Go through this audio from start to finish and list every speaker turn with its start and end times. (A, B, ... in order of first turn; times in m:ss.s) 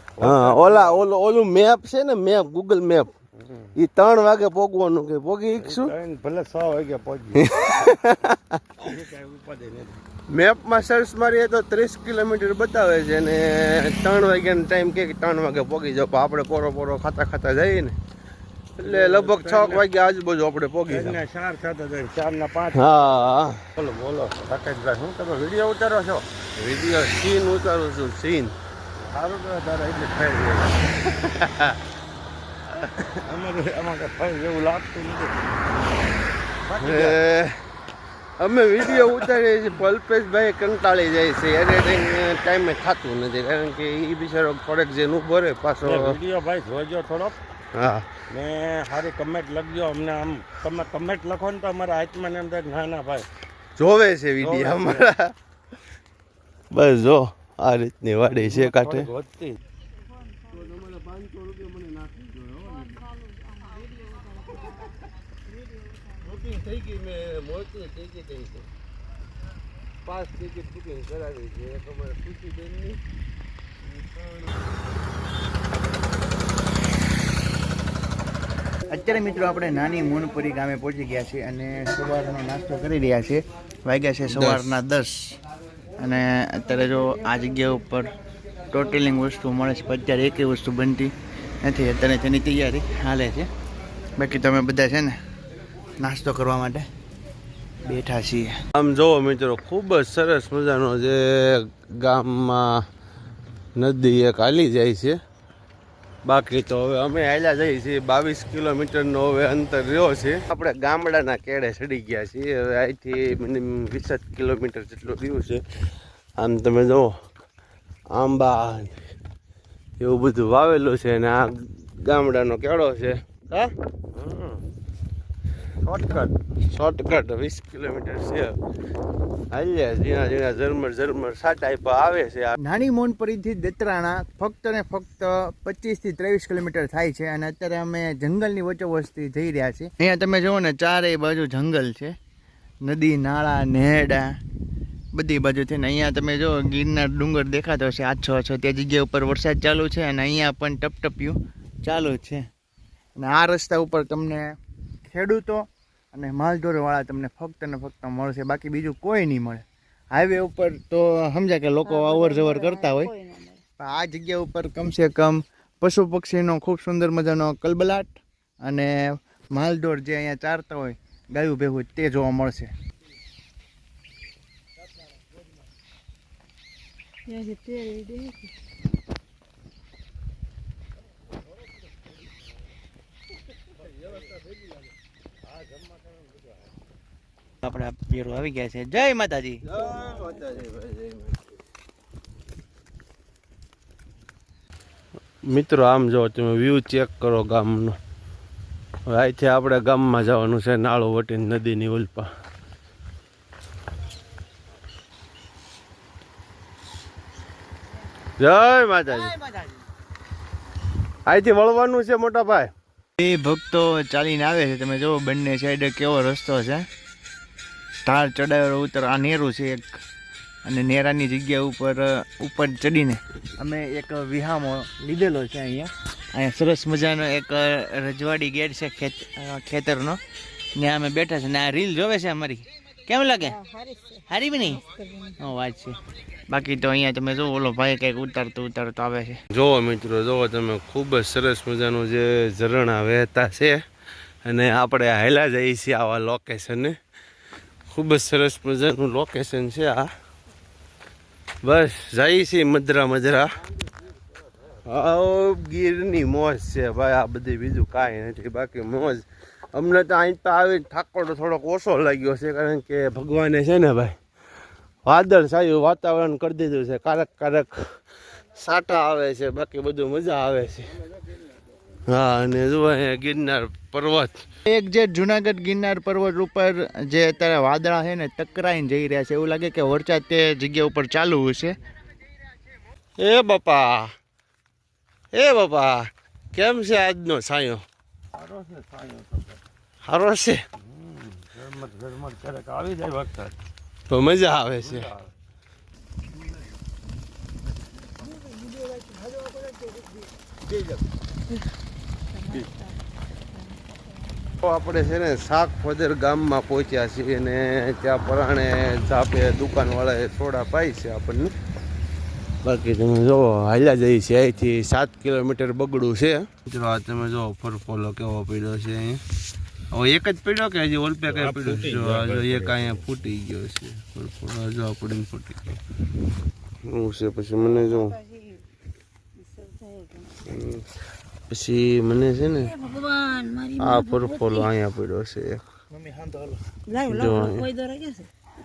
0:00.2-0:01.0 A
0:00.2-0:03.1 B
0:03.4-0:03.7 A
0:03.8-0:05.9 B
0:05.6-0:07.7 A
0:07.4-0:08.6 B
0:08.8-0:10.0 A
0:10.3-0:18.0 B
0:18.8-0:21.2 B
0:18.8-0:19.8 A
0:20.9-0:26.3 A
0:22.7-0:23.6 B
0:26.5-0:28.6 B
0:29.0-0:30.8 A
0:31.0-0:31.8 B
0:32.8-0:33.1 B
0:33.1-0:35.3 A
0:36.6-0:37.2 A
0:36.8-0:37.6 B
0:38.4-0:46.2 B
0:39.0-0:39.3 A
0:45.8-0:47.4 A
0:47.7-0:48.1 B
0:48.3-0:53.3 A
0:53.8-0:55.3 B
0:54.4-0:55.1 A
0:56.7-0:59.1 B
0:58.4-0:59.6 A
1:00.5-1:02.7 B
1:04.3-1:04.9 C
1:06.2-1:08.6 B
1:10.0-1:13.0 B
1:18.9-1:25.4 D
1:24.3-1:24.8 B
1:26.0-1:28.1 D
1:28.7-1:33.5 D
1:34.2-1:35.1 D
1:36.0-1:36.8 D
1:37.8-1:38.6 D
1:38.8-1:42.8 B
1:43.8-1:45.2 B
1:46.2-1:55.6 B
1:56.4-1:57.1 B
1:58.1-1:59.0 B
2:00.0-2:03.7 B
2:04.1-2:04.6 A
2:05.8-2:06.4 A
2:06.7-2:08.6 B
2:09.5-2:12.5 B
2:12.6-2:22.1 D
2:22.8-2:24.4 D
2:25.1-2:32.4 D
2:33.2-2:43.1 D
2:41.8-2:43.6 C
2:43.8-2:52.7 D
2:57.3-2:58.5 C
3:05.5-3:06.5 A
3:07.6-3:09.6 D
3:09.6-3:11.4 B
3:15.4-3:18.0 B
3:19.1-3:22.3 B
3:28.4-3:29.3 B
3:29.1-3:29.7 D
3:31.2-3:32.7 B
3:33.2-3:36.8 D
3:38.0-3:40.0 D
3:40.6-3:50.2 D
3:50.8-3:53.6 D
3:53.4-3:55.4 C
3:54.3-3:54.8 D
3:55.4-3:59.4 D
3:59.5-4:03.8 B
4:04.4-4:07.0 B
4:07.9-4:10.1 B
4:11.6-4:13.5 B
4:14.8-4:24.2 B
4:25.0-4:27.8 B
4:28.5-4:30.9 B
4:32.1-4:34.4 B
4:34.6-4:41.8 D
4:43.2-4:44.1 B
4:45.3-4:47.8 B
4:48.3-4:49.6 A
4:50.0-4:50.6 B
4:50.8-4:53.5 A
4:54.1-4:55.1 B
4:54.8-4:55.3 A
5:02.3-5:03.0 C
5:03.5-5:04.0 C
5:04.6-5:11.5 B
5:12.6-5:19.2 B
5:19.9-5:25.8 B
5:21.3-5:23.0 A
5:26.8-5:28.2 B
5:27.9-5:28.6 C
5:29.4-5:30.3 C
5:30.4-5:30.8 B
5:31.5-5:32.7 B
5:32.7-5:34.7 C
5:33.8-5:35.6 B
5:35.9-5:36.6 D
5:36.9-5:38.3 C
5:37.1-5:37.7 B